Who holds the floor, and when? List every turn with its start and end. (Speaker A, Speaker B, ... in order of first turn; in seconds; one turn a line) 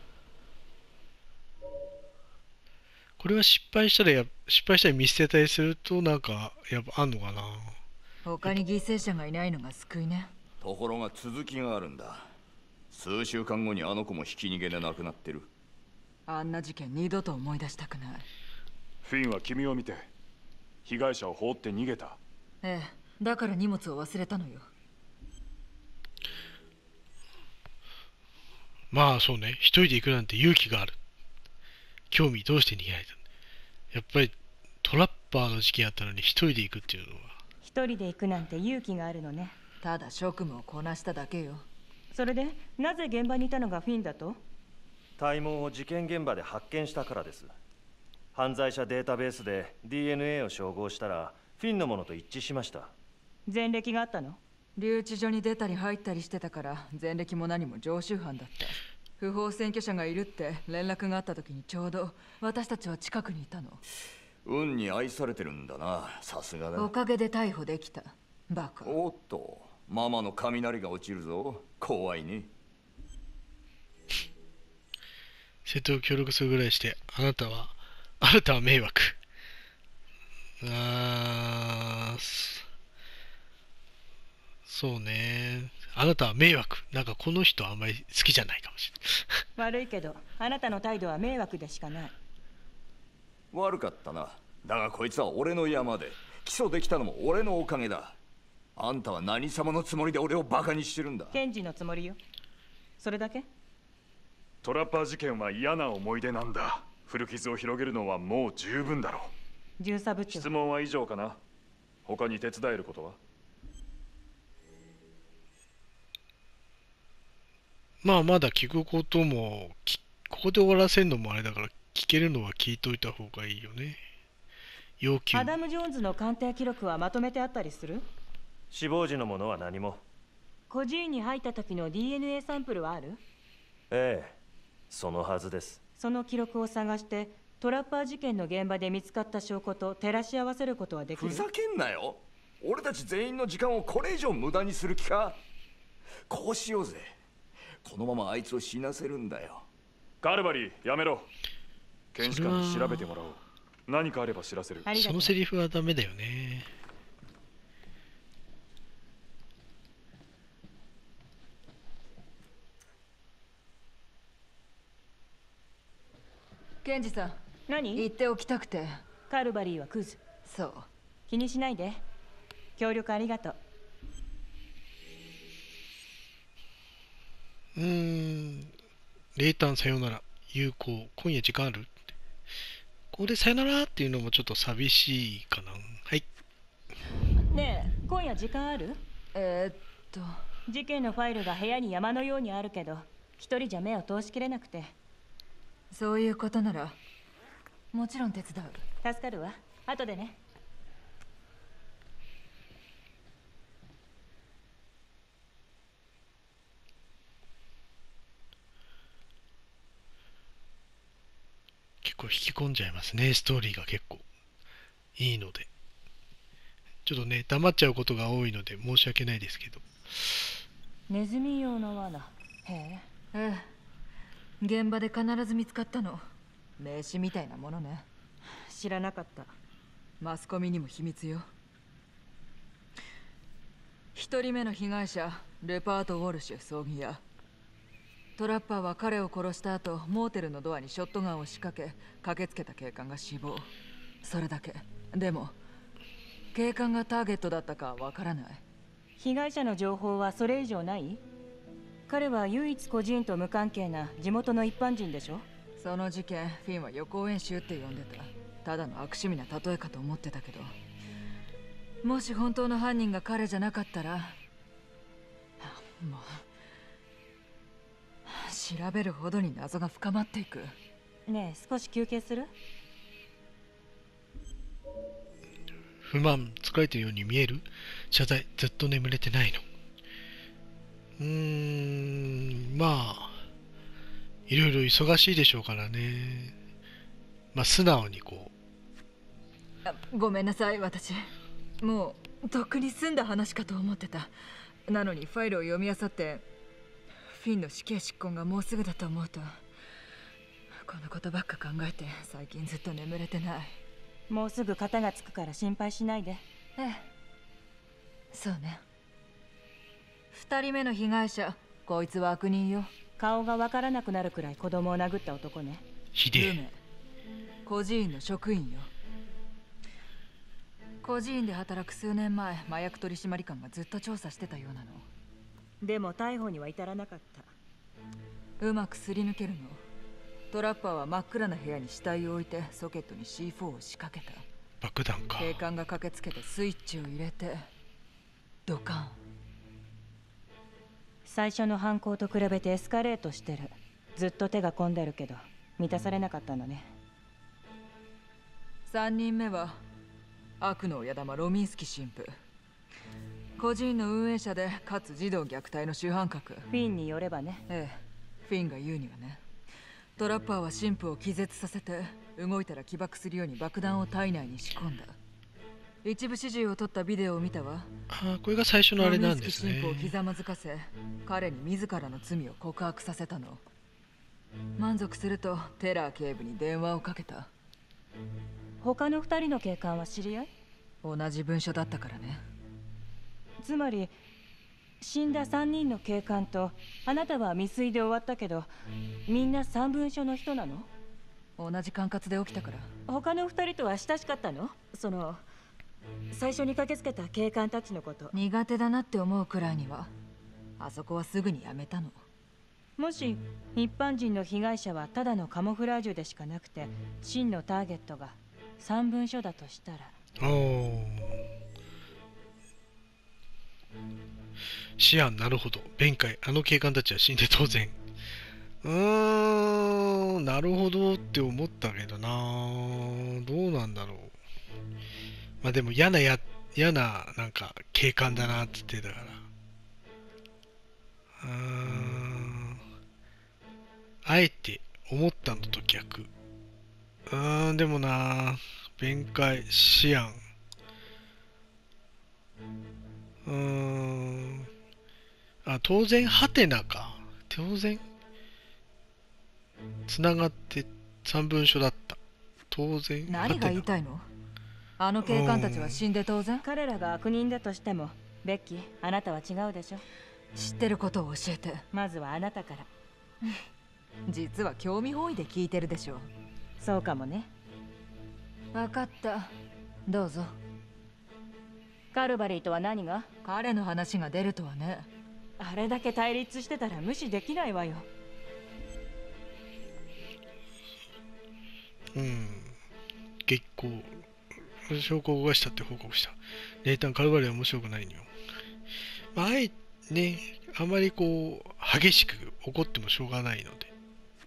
Speaker A: 3.2-7.8
Speaker B: 8.2-10.3
Speaker C: 10.6-12.3
Speaker C: 12.9-15.5
Speaker B: 16.3-18.3
Speaker D: 19.0-20.1
Speaker D: 20.9-22.2
Speaker B: 22.6-24.7
Speaker A: 28.9-30.9
Speaker A: 32.1-33.2
Speaker A: 33.9-37.4
Speaker E: 37.6-39.6
Speaker B: 39.8-41.7
Speaker E: 42.1-44.4
Speaker F: 45.2-47.5
Speaker F: 48.4-52.9
Speaker E: 53.5-54.4
Speaker B: 54.8-63.8
Speaker C: 64.5-66.9
Speaker B: 66.8-69.0
Speaker C: 68.8-72.5
Speaker A: 75.7-79.2
Speaker A: 80.6-82.6
Speaker A: 84.7-89.4
Speaker E: 89.6-92.2
Speaker C: 93.5-98.2
Speaker C: 98.8-101.4
Speaker E: 101.3-102.2
Speaker E: 103.0-103.5
Speaker D: 104.6-109.3
Speaker E: 109.8-110.5
Speaker D: 110.3-111.4
Speaker D: 112.1-113.2
Speaker A: 118.0-124.0
Speaker A: 125.0-125.5
Speaker E: 125.3-128.1
Speaker F: 128.7-130.0
Speaker E: 130.7-133.2
Speaker F: 133.9-134.4
Speaker F: 134.9-135.8
Speaker E: 136.0-141.5
Speaker C: 141.2-145.4
Speaker C: 146.3-147.2
Speaker C: 147.8-149.7
Speaker D: 150.2-151.3
Speaker D: 152.1-154.9
Speaker A: 152.2-153.1
Speaker E: 154.8-155.3
Speaker A: 154.9-156.7
Speaker B: 166.8-167.4
Speaker E: 167.7-168.1
Speaker B: 167.9-169.0
Speaker E: 169.3-170.2
Speaker B: 170.4-170.9
Speaker E: 171.3-172.0
Speaker E: 172.8-173.6
Speaker A: 177.8-178.7
Speaker A: 179.4-181.9
Speaker A: 183.1-186.2
Speaker E: 187.5-189.0
Speaker B: 189.3-190.3
Speaker E: 190.7-194.9
Speaker B: 195.9-197.0
Speaker B: 197.9-198.8
Speaker E: 199.0-200.4
Speaker A: 212.0-214.2
Speaker A: 215.2-215.7
Speaker A: 217.1-220.4
Speaker E: 221.1-223.1
Speaker B: 223.3-223.7
Speaker B: 224.6-226.2
Speaker B: 226.8-228.1
Speaker E: 228.7-229.6
Speaker B: 230.2-231.5
Speaker B: 234.2-237.2
Speaker B: 238.4-243.7
Speaker B: 244.2-245.6
Speaker B: 246.5-248.6
Speaker E: 249.2-251.2
Speaker E: 252.1-255.5
Speaker B: 255.8-260.7
Speaker B: 262.0-264.4
Speaker B: 265.6-266.5
Speaker B: 268.2-270.8
Speaker E: 271.3-272.5
Speaker A: 276.1-279.6
Speaker A: 281.2-283.4
Speaker A: 284.5-286.6
Speaker A: 287.5-288.5
Speaker B: 289.9-294.3
Speaker B: 294.9-296.5
Speaker B: 297.3-299.6
Speaker B: 300.7-303.8
Speaker E: 304.3-306.4
Speaker B: 306.8-307.1
Speaker B: 308.3-308.8
Speaker B: 310.3-312.9
Speaker E: 313.2-315.9
Speaker A: 316.1-316.6
Speaker B: 316.4-316.8
Speaker B: 317.6-318.9
Speaker B: 321.0-325.1
Speaker E: 325.8-327.5
Speaker B: 328.6-329.8
Speaker B: 330.5-334.5
Speaker A: 334.8-335.6
Speaker B: 335.4-337.7
Speaker B: 338.7-339.2
Speaker E: 341.2-346.9
Speaker B: 348.9-349.8
Speaker B: 350.6-352.4
Speaker B: 353.6-356.7
Speaker E: 356.7-357.6
Speaker B: 357.7-359.4
Speaker B: 360.2-365.2
Speaker B: 366.0-367.9
Speaker A: 368.1-370.1
Speaker B: 369.0-373.6
Speaker B: 374.8-377.5
Speaker E: 378.8-380.5
Speaker B: 381.0-382.4
Speaker E: 383.6-384.1
Speaker E: 385.0-388.7
Speaker E: 389.3-390.9
Speaker B: 391.6-392.9
Speaker E: 393.1-395.4
Speaker E: 396.3-398.3
Speaker B: 398.3-400.1
Speaker B: 400.8-402.2
Speaker E: 403.0-410.2
Speaker A: 410.4-411.4
Speaker A: 415.0-418.0
Speaker A: 418.8-424.4
Speaker A: 425.6-429.4
Speaker A: 431.4-432.8
Speaker A: 434.2-436.3
Speaker A: 437.3-440.4
Speaker A: 443.5-444.7
Speaker A: 445.6-448.1
Speaker A: 450.1-452.2
Speaker A: 452.7-453.9
Speaker B: 453.3-454.3
Speaker B: 455.0-456.6
Speaker A: 455.2-456.0
Speaker E: 456.6-460.0
Speaker B: 460.6-461.9
Speaker E: 461.9-462.9
Speaker B: 464.3-466.3
Speaker E: 466.8-467.5
Speaker B: 468.7-469.5
Speaker B: 470.1-470.6
Speaker E: 472.1-473.3
Speaker B: 473.4-475.1
Speaker E: 475.6-478.1
Speaker A: 482.1-482.8
Speaker A: 483.5-484.2
Speaker A: 484.9-488.3
Speaker A: 489.4-493.9